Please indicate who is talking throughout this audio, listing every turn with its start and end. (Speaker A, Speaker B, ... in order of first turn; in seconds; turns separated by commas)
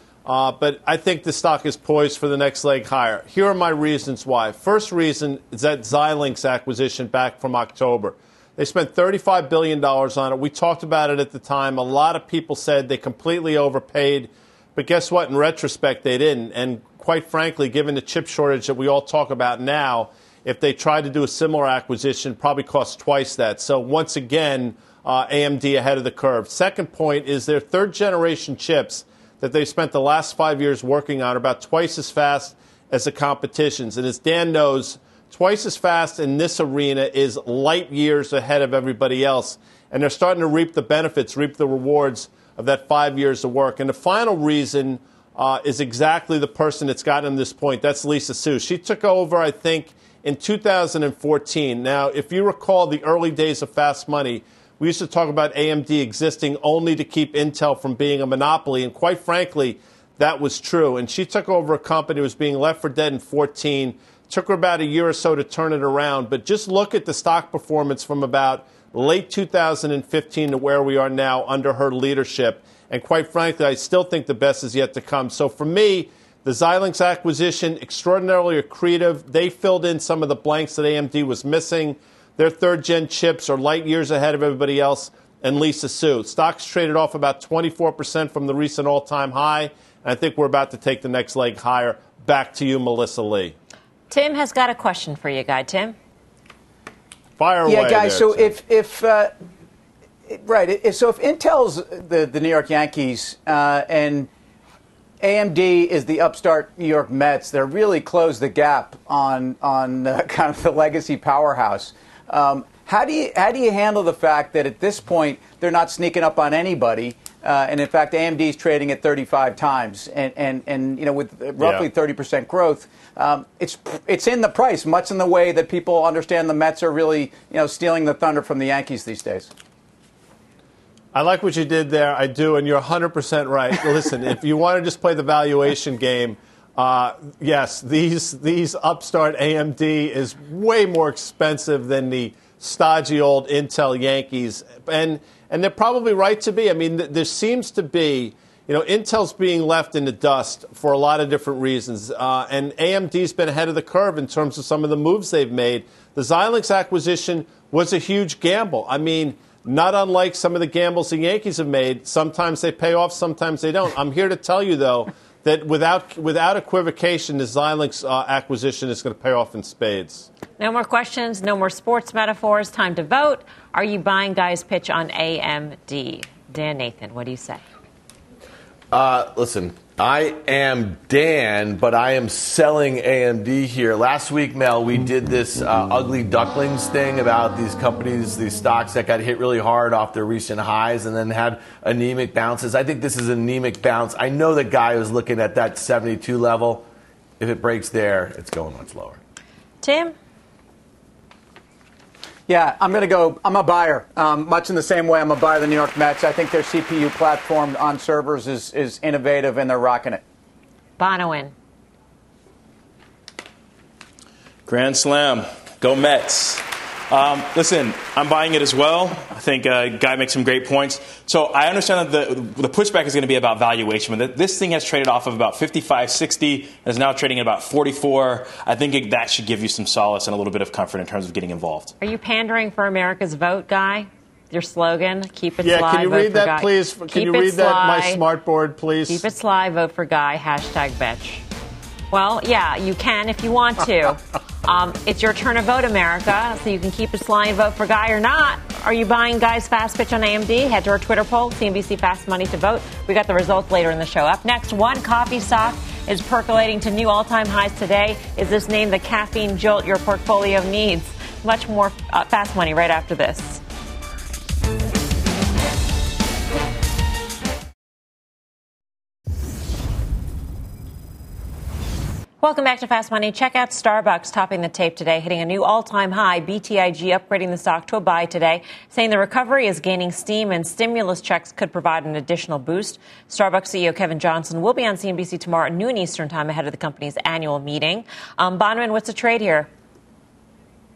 Speaker A: 0.3-93.5, Speaker B: 94.1-96.0, Speaker A: 97.4-98.5, Speaker C: 97.7-99.3, Speaker C: 100.3-104.3, Speaker C: 105.2-129.5, Speaker A: 121.6-121.9, Speaker A: 131.1-170.3, Speaker B: 170.6-177.6, Speaker D: 178.9-196.8, Speaker D: 197.4-199.2, Speaker B: 199.8-200.2, Speaker C: 202.5-210.2, Speaker B: 211.0-211.5, Speaker E: 214.7-231.9, Speaker B: 232.0-238.2, Speaker A: 235.6-239.2, Speaker B: 239.1-241.4, Speaker B: 242.1-263.6, Speaker B: 272.4-289.7